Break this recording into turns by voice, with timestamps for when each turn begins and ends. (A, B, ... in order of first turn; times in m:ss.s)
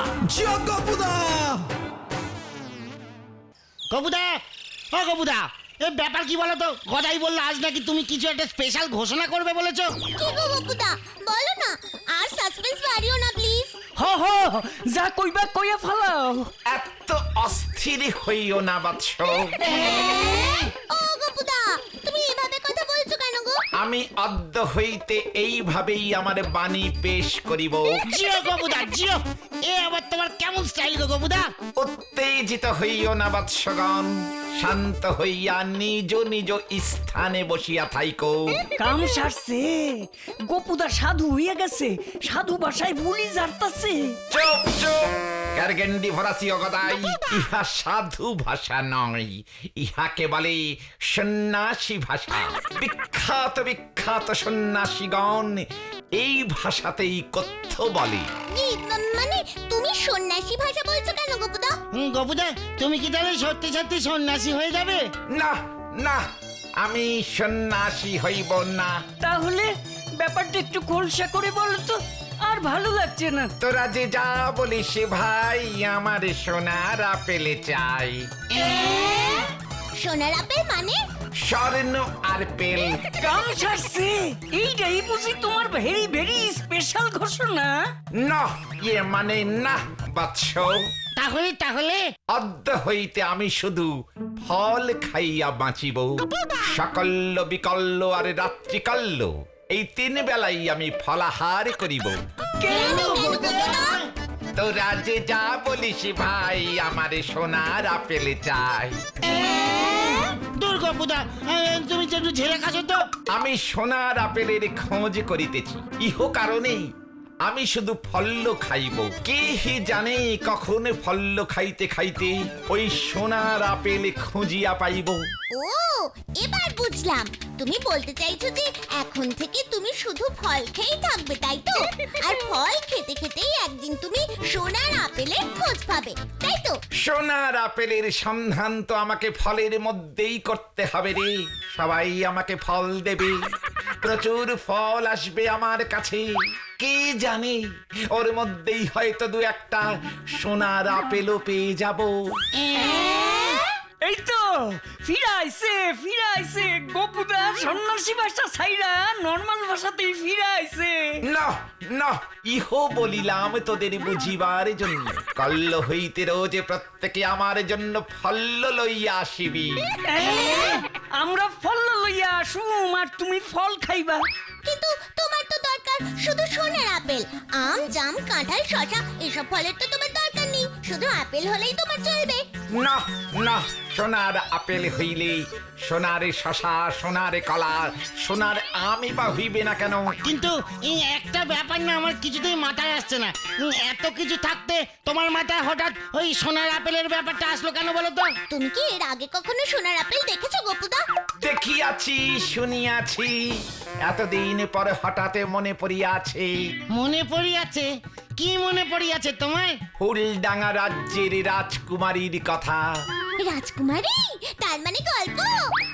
0:03.9-0:04.3 A
0:05.0-0:09.8 A
0:10.2-0:13.7 B
0:14.0-0:16.5 C
0:16.7-0:19.5 D
0:19.7-0:23.6 B
0:23.8-0:27.9 D
0:28.1-0:29.2 A
0:29.7-0:31.4 A
0:31.8-0:38.5 D
0:38.8-0:44.2 C
0:44.3-0:55.6 D
0:56.2-0:58.3 D
0:58.5-1:01.8 B
1:02.0-1:05.0 A
1:05.3-1:06.2 D
1:06.8-1:09.0 D
1:09.2-1:13.5 C
1:13.6-1:18.2 D
1:18.5-1:19.4 B
1:20.0-1:21.0 B
1:21.4-1:23.2 D
1:23.3-1:27.8 C
1:28.2-1:30.8 D
1:31.2-1:32.0 A
1:32.3-1:33.9 D
1:34.4-1:42.2 D
1:42.6-1:42.8 C
1:42.7-1:43.8 A
1:42.7-1:44.0 B
1:44.6-1:49.0 D
1:49.3-1:50.1 A
1:49.6-1:50.3 B
1:50.6-1:53.0 A
1:53.3-1:56.8 D
1:57.4-2:05.2 D
2:05.5-2:16.8 B
2:17.0-2:23.4 D
2:24.0-2:32.2 D
2:32.8-2:33.4 C
2:34.0-2:41.2 C
2:41.3-2:49.8 D
2:50.1-2:54.2 C
2:54.6-3:02.4 B
3:02.8-3:10.1 D
3:10.2-3:18.3 A
3:18.5-3:21.0 B
3:21.4-3:26.6 D
3:26.9-3:29.7 A
3:30.0-3:32.8 D
3:33.4-3:35.7 B